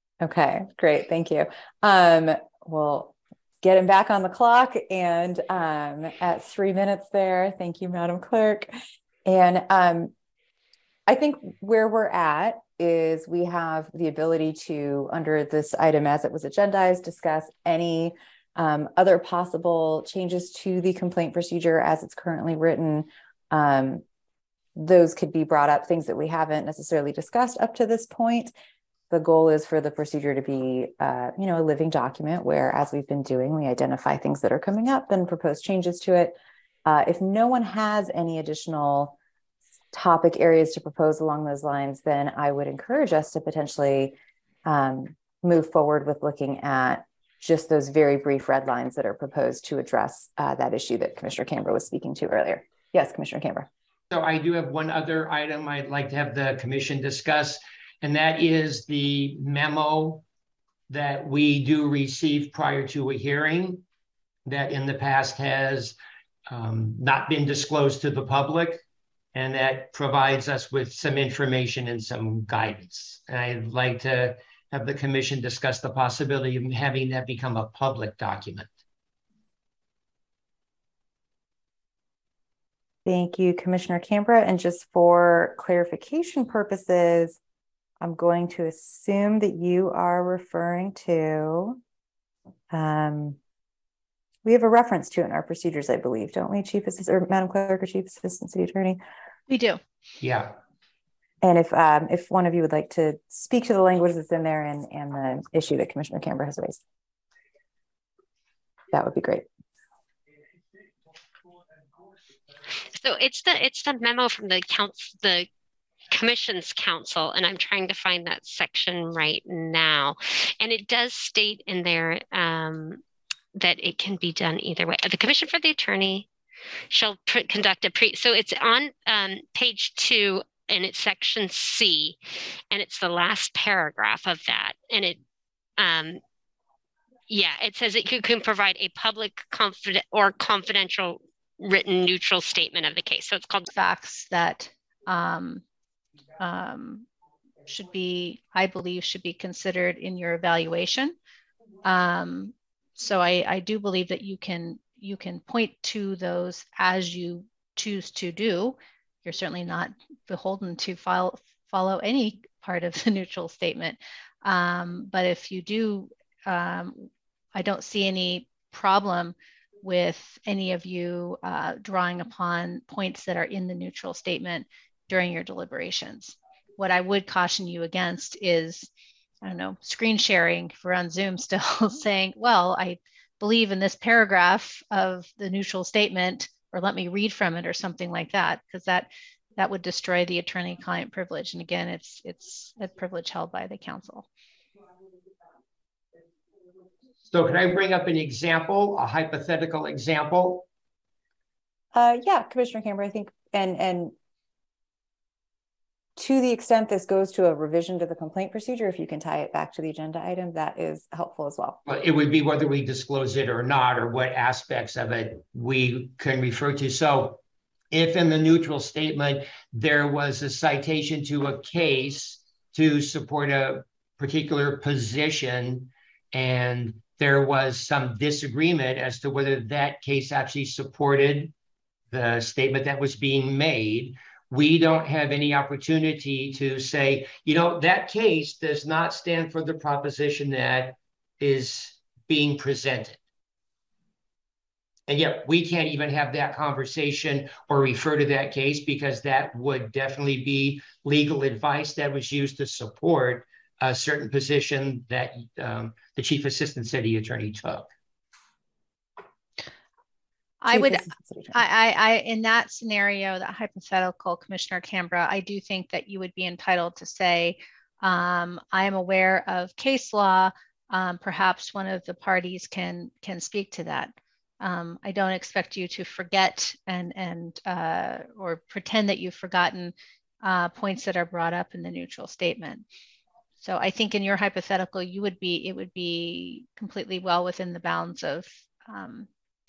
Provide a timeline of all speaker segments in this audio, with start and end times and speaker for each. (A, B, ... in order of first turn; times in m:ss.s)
0:00.2-0:08.7 A
0:09.2-0:10.1 A
0:11.1-0:24.0 A
0:24.8-0:28.5 A
0:29.1-0:39.2 A
0:39.9-0:53.7 A
0:54.1-1:00.2 B
1:00.9-1:03.8 B
1:04.5-1:06.0 B
1:06.5-1:08.8 B
1:09.3-1:18.7 B
1:23.0-1:27.4 A
1:28.0-1:31.8 A
1:32.7-1:33.4 A
1:34.4-1:39.0 A
1:39.5-1:39.8 C
1:40.2-1:40.6 B
1:41.4-1:46.8 A
1:48.9-1:49.5 A
1:52.9-1:55.5 D
1:56.1-2:03.0 D
2:03.6-2:06.3 D
2:06.9-2:12.2 D
2:12.7-2:15.2 D
2:15.8-2:16.2 D
2:17.3-2:23.7 D
2:23.7-2:25.6 C
2:26.4-2:27.1 C
2:27.7-2:31.2 C
2:31.8-2:58.9 C
2:59.4-3:14.3 C
3:17.3-3:20.7 B
3:21.9-3:24.1 A
3:26.2-3:31.8 A
3:31.9-3:37.4 B
3:37.9-3:51.5 B
3:52.1-4:03.2 B
4:05.1-4:17.9 B
4:20.6-4:42.8 C
4:20.7-4:21.6 A
4:43.6-4:49.3 C